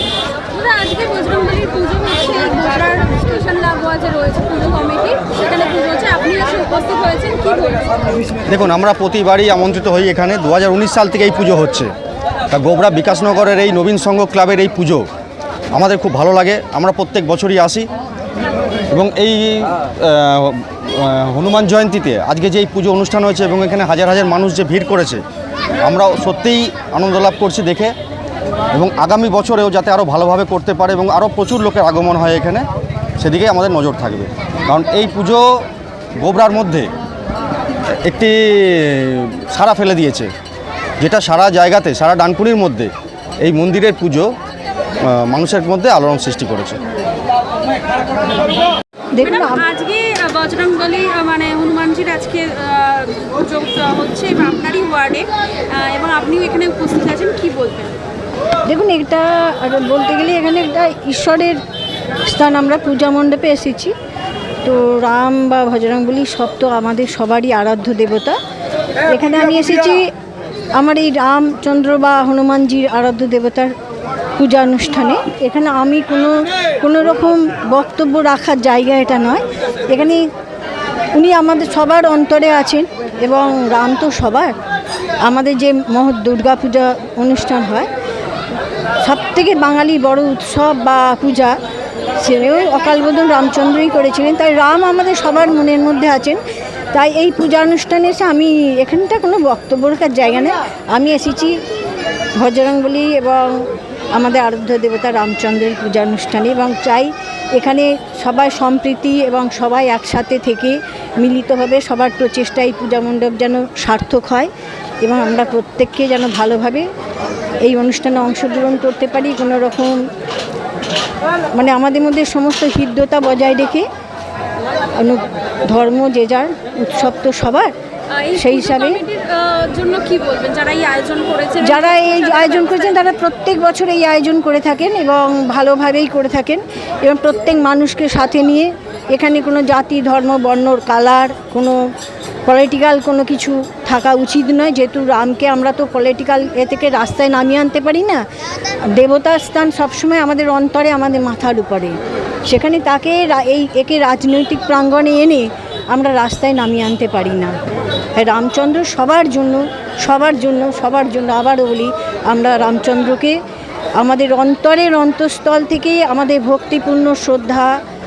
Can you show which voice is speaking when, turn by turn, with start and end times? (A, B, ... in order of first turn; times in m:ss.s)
0:00.5-0:08.4 A
0:08.5-0:11.9 B
0:12.5-0:15.1 B
0:15.7-0:17.9 B
0:18.9-0:25.2 B
0:25.8-0:28.0 B
0:28.7-0:32.7 B
0:33.2-0:35.7 B
0:36.2-0:36.9 B
0:38.0-0:40.3 B
0:41.0-0:44.3 B
0:45.0-0:46.8 B
0:49.1-0:49.7 C
0:49.3-0:58.0 A
0:58.7-1:01.6 C
1:02.3-1:03.9 C
1:04.6-1:08.4 C
1:09.1-1:10.1 C
1:10.8-1:13.7 C
1:14.4-1:20.2 C
1:21.2-1:24.5 C
1:25.2-1:27.9 C
1:29.0-1:31.6 C
1:32.2-1:36.4 C
1:36.9-1:41.6 C
1:42.4-1:54.5 C
1:55.0-1:56.9 C
1:57.6-2:00.0 C
2:01.5-2:03.9 C
2:05.0-2:07.7 C
2:08.2-2:12.8 A
2:08.3-2:09.0 C
2:11.6-2:21.8 C
2:22.5-2:28.2 C
2:28.9-2:32.0 C
2:32.5-2:37.6 C
2:38.2-2:43.4 C
2:44.0-2:47.8 C